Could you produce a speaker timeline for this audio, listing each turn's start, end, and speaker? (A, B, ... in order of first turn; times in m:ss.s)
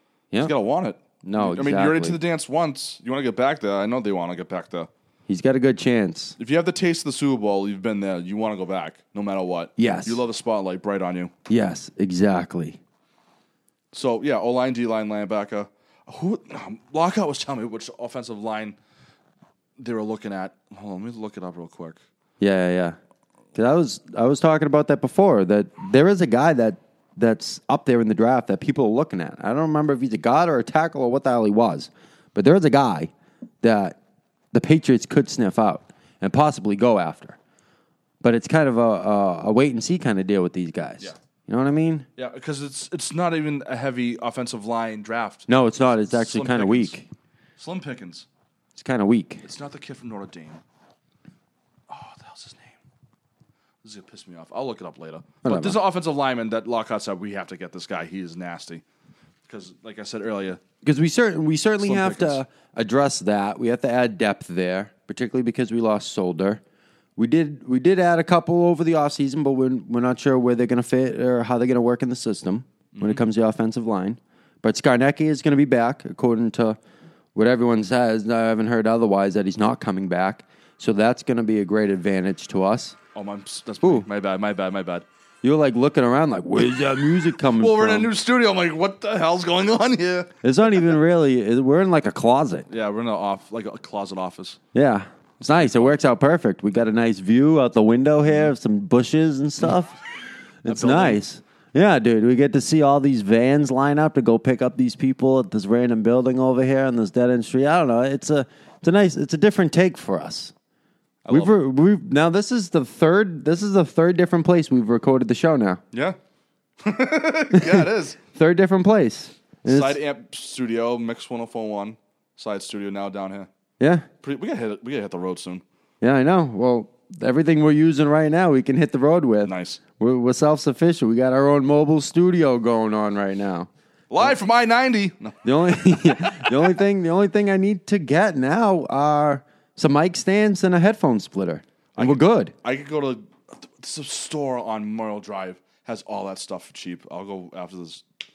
0:00.4-0:04.9 A
0:01.2-0:02.2 B
0:05.3-0:06.4 B
0:06.4-0:11.3 A
0:09.8-0:10.2 B
0:11.5-0:12.8 B
0:13.9-0:18.8 A
0:19.8-0:22.0 A
0:22.4-0:23.0 B
0:23.5-0:33.1 B
0:33.6-0:34.0 B
0:34.5-0:37.4 B
0:38.2-0:42.0 B
0:42.2-0:45.5 A
0:45.5-0:47.1 B
0:46.1-0:46.9 A
0:47.6-0:48.2 A
0:48.8-0:49.4 B
0:49.4-0:50.6 A
0:51.9-0:52.8 A
0:53.8-0:58.8 A
0:55.4-0:55.8 B
0:59.4-1:00.6 A
1:00.8-1:06.6 B
1:01.8-1:02.4 A
1:07.2-1:16.8 B
1:12.9-1:13.2 A
1:17.3-1:23.0 B
1:23.1-1:25.0 A
1:25.4-1:28.1 B
1:27.6-1:30.3 A
1:30.4-1:32.7 B
1:32.7-1:34.6 A
1:34.7-1:40.0 B
1:35.5-1:35.9 A
1:40.6-1:50.5 B
1:40.7-1:41.2 A
1:51.2-1:51.5 A
1:51.3-1:55.8 B
1:55.9-1:56.2 A
1:56.8-1:58.2 A
1:57.5-2:00.0 B
1:59.6-2:03.5 A
2:03.8-2:04.1 B
2:04.2-2:05.6 A
2:06.0-2:13.7 B
2:09.4-2:09.8 A
2:14.1-2:16.8 A
2:15.4-2:22.5 B
2:22.0-2:28.0 A